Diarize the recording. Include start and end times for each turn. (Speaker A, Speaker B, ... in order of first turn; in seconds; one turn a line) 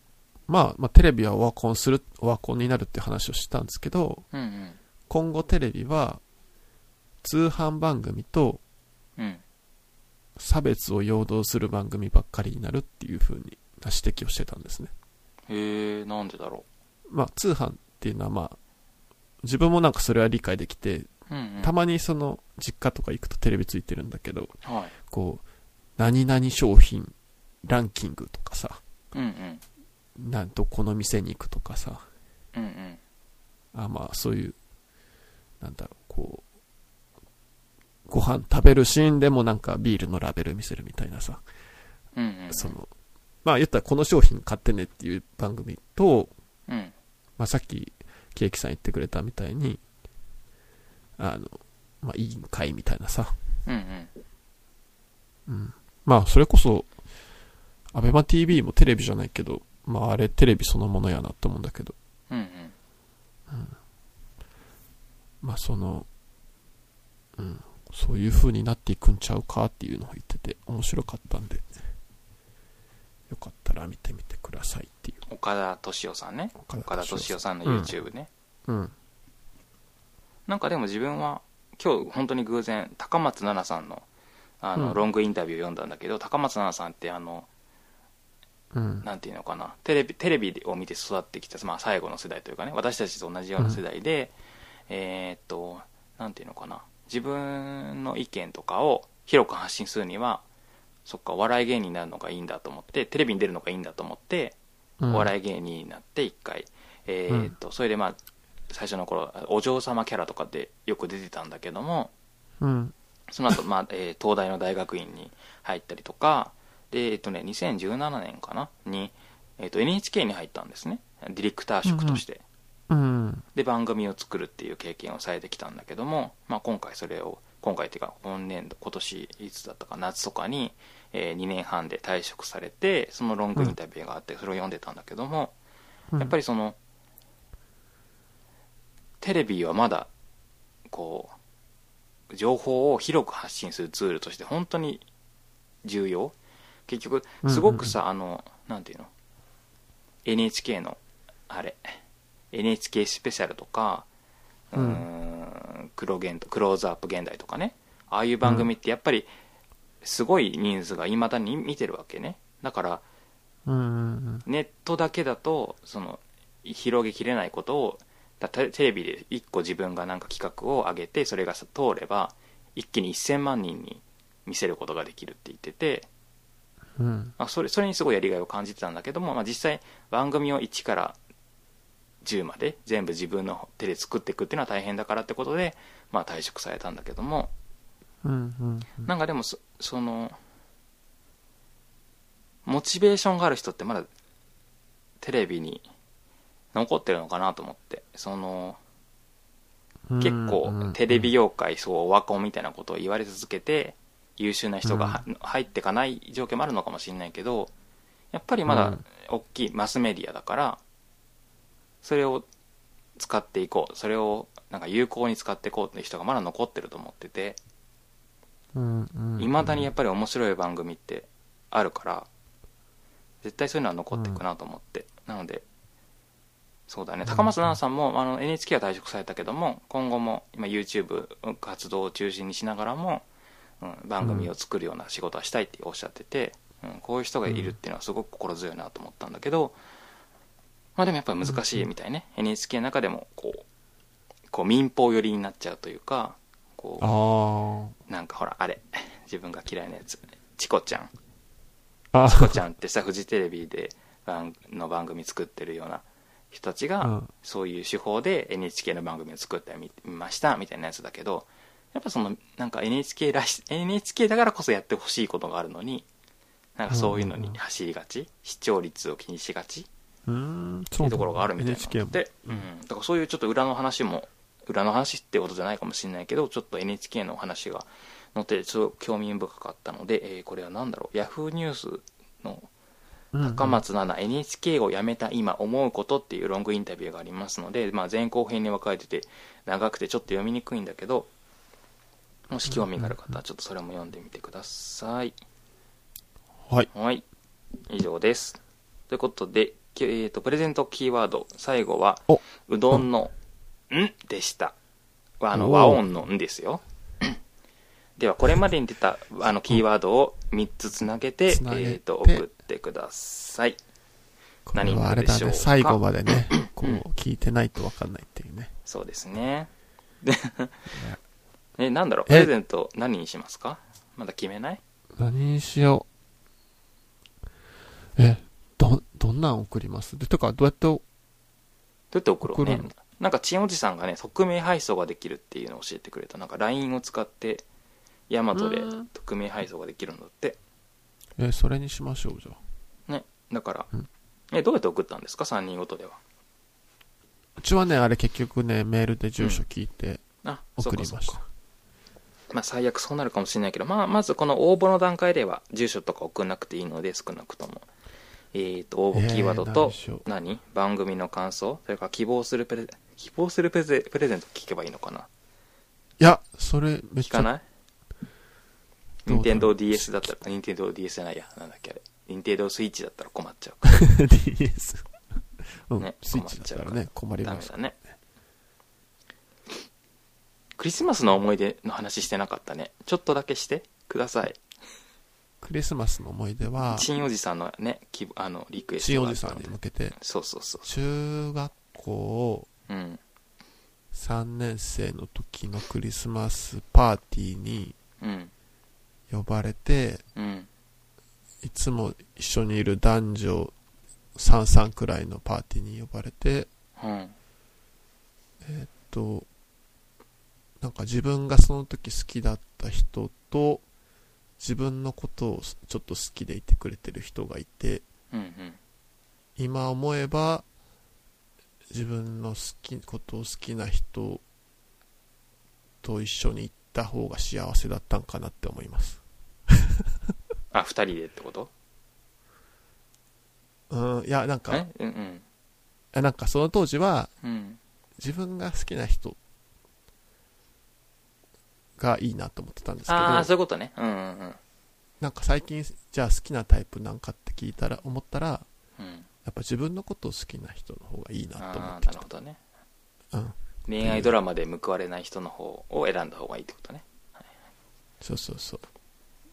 Speaker A: 0.5-4.2
Speaker B: 4.3-4.8
Speaker A: 5.1-6.2
Speaker A: 7.2-8.6
Speaker B: 9.2-9.4
Speaker A: 10.4-14.9
Speaker B: 15.5-16.7
Speaker A: 17.1-18.6
Speaker A: 19.4-21.1
Speaker B: 21.3-21.7
Speaker A: 21.6-24.5
Speaker B: 24.6-24.9
Speaker A: 25.1-25.4
Speaker A: 26.0-27.1
Speaker A: 27.6-28.8
Speaker B: 29.1-29.6
Speaker A: 30.2-32.0
Speaker B: 32.5-33.0
Speaker A: 33.7-34.6
Speaker A: 35.6-36.4
Speaker A: 38.1-41.4
Speaker B: 42.2-42.8
Speaker A: 42.5-42.9
Speaker A: 43.4-46.3
Speaker B: 46.7-46.9
Speaker A: 47.4-49.8
Speaker A: 51.2-53.3
Speaker B: 53.7-54.1
Speaker A: 55.5-56.9
Speaker A: 57.9-62.0
Speaker B: 62.3-62.7
Speaker A: 63.5-63.8
Speaker A: 65.4-66.1
Speaker A: 67.4-71.7
Speaker A: 73.3-75.2
Speaker B: 75.3-78.3
Speaker A: 76.6-78.0
Speaker A: 78.7-78.9
Speaker B: 80.5-84.1
Speaker B: 84.6-87.5
Speaker A: 88.7-89.1
Speaker B: 89.0-94.3
Speaker B: 94.9-100.4
Speaker B: 101.1-104.6
Speaker A: 105.0-105.3
Speaker B: 105.1-108.2
Speaker B: 108.7-112.1
Speaker A: 112.6-112.9
Speaker B: 113.3-122.4
Speaker A: 121.9-122.2
Speaker A: 122.9-123.5
Speaker B: 123.5-135.5
Speaker B: 136.2-136.8
Speaker B: 139.2-140.1
Speaker B: 140.9-141.3
Speaker B: 142.3-145.1
Speaker B: 145.8-146.3
Speaker B: 146.9-149.1
Speaker A: 147.4-147.9
Speaker B: 150.2-152.0
Speaker B: 152.5-154.1
Speaker B: 154.7-159.3
Speaker A: 154.8-155.1
Speaker A: 158.4-158.7
Speaker B: 160.0-163.0
Speaker A: 163.7-164.4
Speaker B: 164.5-176.1
Speaker A: 177.0-177.3
Speaker B: 177.4-181.2
Speaker B: 182.2-187.5
Speaker A: 188.2-189.1
Speaker B: 189.1-190.4
Speaker B: 192.7-194.1
Speaker B: 195.2-195.9
Speaker B: 196.7-198.8
Speaker A: 200.1-201.3
Speaker B: 200.2-207.7
Speaker A: 204.8-205.2
Speaker B: 208.3-210.8
Speaker A: 208.7-209.0
Speaker B: 212.0-212.5
Speaker B: 213.2-217.6
Speaker A: 218.8-219.9
Speaker B: 219.4-222.3
Speaker B: 223.4-225.7
Speaker B: 226.9-233.2
Speaker A: 227.3-227.5
Speaker B: 233.8-239.8
Speaker A: 234.2-234.5
Speaker A: 237.5-237.8
Speaker B: 241.0-243.7
Speaker A: 241.5-241.9
Speaker B: 244.5-247.1
Speaker A: 247.0-247.9
Speaker B: 248.1-251.1
Speaker A: 252.1-252.6
Speaker B: 252.2-266.1
Speaker A: 257.0-257.3
Speaker B: 266.8-269.9
Speaker A: 266.9-267.6
Speaker A: 270.3-272.6
Speaker B: 271.0-282.7
Speaker A: 283.3-283.8
Speaker B: 283.4-291.3
Speaker B: 292.5-295.4
Speaker A: 292.8-293.4
Speaker B: 296.9-297.2
Speaker B: 297.9-298.6
Speaker B: 299.1-303.3
Speaker A: 302.3-303.1
Speaker B: 303.9-304.8
Speaker B: 305.4-307.3
Speaker A: 305.5-306.1
Speaker B: 308.2-313.8
Speaker A: 311.5-312.5
Speaker A: 314.7-318.7
Speaker B: 314.7-316.0
Speaker B: 316.5-317.0
Speaker B: 318.9-319.7
Speaker B: 320.2-320.9
Speaker B: 321.8-324.8
Speaker A: 325.2-326.1
Speaker A: 328.2-331.0
Speaker B: 332.1-337.7
Speaker A: 332.4-332.9
Speaker B: 338.3-340.6
Speaker A: 338.6-339.1
Speaker A: 341.4-342.6
Speaker B: 343.1-343.9
Speaker B: 344.5-346.2
Speaker A: 347.6-350.2
Speaker B: 350.4-351.4
Speaker A: 350.8-351.4
Speaker B: 352.5-357.9
Speaker B: 358.5-365.3
Speaker A: 359.1-360.2
Speaker A: 366.2-367.5
Speaker B: 367.2-367.6
Speaker B: 369.3-374.1
Speaker A: 369.3-370.3
Speaker A: 373.9-375.1
Speaker A: 375.9-377.7
Speaker B: 376.0-377.9
Speaker B: 380.8-384.6
Speaker A: 385.6-387.1
Speaker B: 386.9-390.9
Speaker A: 389.0-390.2
Speaker A: 390.9-392.7
Speaker B: 392.9-393.2
Speaker A: 394.1-397.9
Speaker B: 398.2-398.5
Speaker A: 399.3-400.2
Speaker B: 400.4-400.7
Speaker A: 401.6-403.7
Speaker A: 404.4-406.7
Speaker B: 407.0-407.4
Speaker A: 408.6-409.5
Speaker A: 410.8-413.8
Speaker A: 414.6-418.1
Speaker B: 418.3-418.8
Speaker A: 419.6-420.6
Speaker A: 421.9-424.4
Speaker A: 426.0-430.0
Speaker B: 430.7-431.7
Speaker A: 433.9-434.9
Speaker B: 434.7-435.4
Speaker A: 436.1-437.3
Speaker B: 437.4-437.8
Speaker A: 438.2-439.4
Speaker A: 442.0-443.5
Speaker B: 443.1-444.6
Speaker A: 445.2-448.7
Speaker B: 449.0-449.3
Speaker A: 449.4-452.2
Speaker B: 451.6-452.6
Speaker A: 453.3-454.3
Speaker B: 453.9-457.1
Speaker A: 458.2-458.8